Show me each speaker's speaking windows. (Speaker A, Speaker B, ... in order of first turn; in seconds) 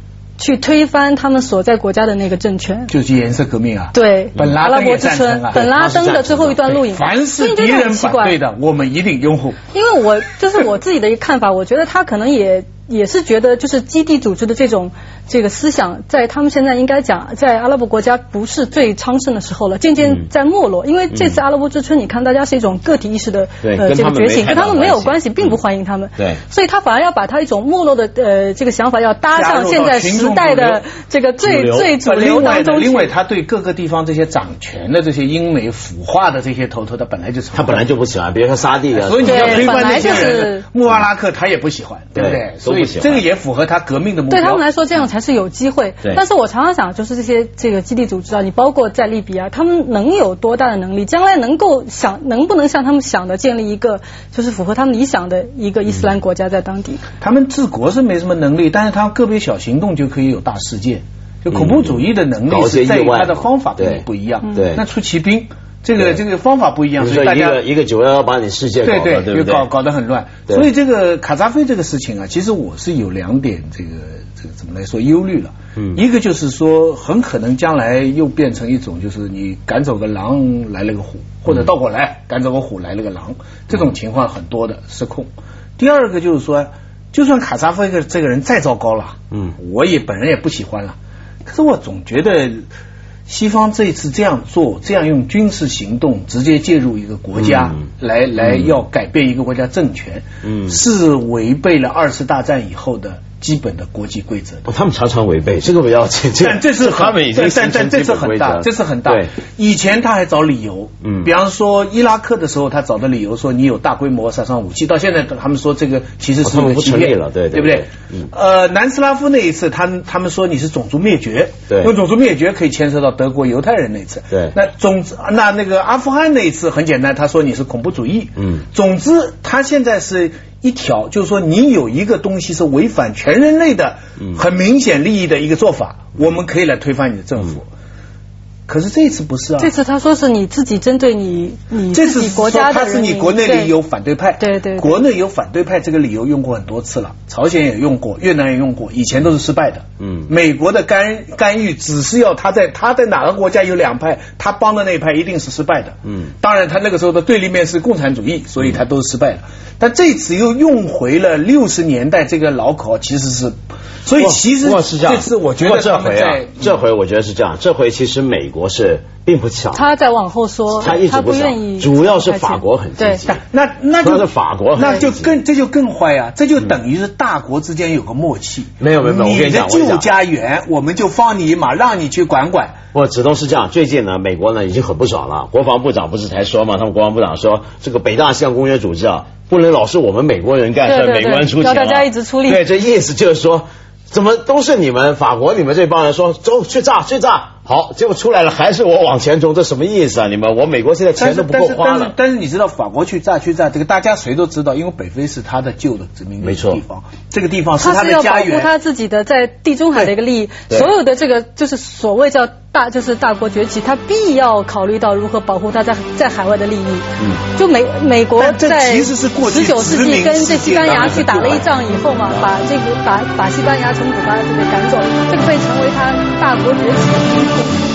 Speaker A: 0.4-2.9, 3.9-8.3, 9.7-33.1, 39.2-40.6, 44.3-57.0, 139.6-143.7, 144.4-145.0, 169.7-173.2, 190.8-192.6, 207.8-227.7
Speaker B: 2.9-5.8, 6.7-9.6, 29.3-30.8, 31.7-37.8, 38.9-44.6, 57.2-67.6, 68.8-92.6, 93.3-104.7, 106.4-137.6, 138.7-139.7, 141.9-166.7, 173.3-182.8, 201.2-208.7, 218.4-221.6
Speaker C: 5.5-6.6, 21.1-21.4, 23.6-25.6, 31.4-31.9, 37.5-40.3, 42.1-43.2, 61.5-64.8, 67.0-69.7, 97.4-97.7, 98.4-98.7, 100.4-100.7, 104.7-109.3, 111.0-111.3, 116.4-118.3, 121.7-121.9, 150.0-150.3, 164.2-169.8, 170.8-173.4, 174.0-175.3, 178.8-180.1, 182.9-202.1, 206.4-206.8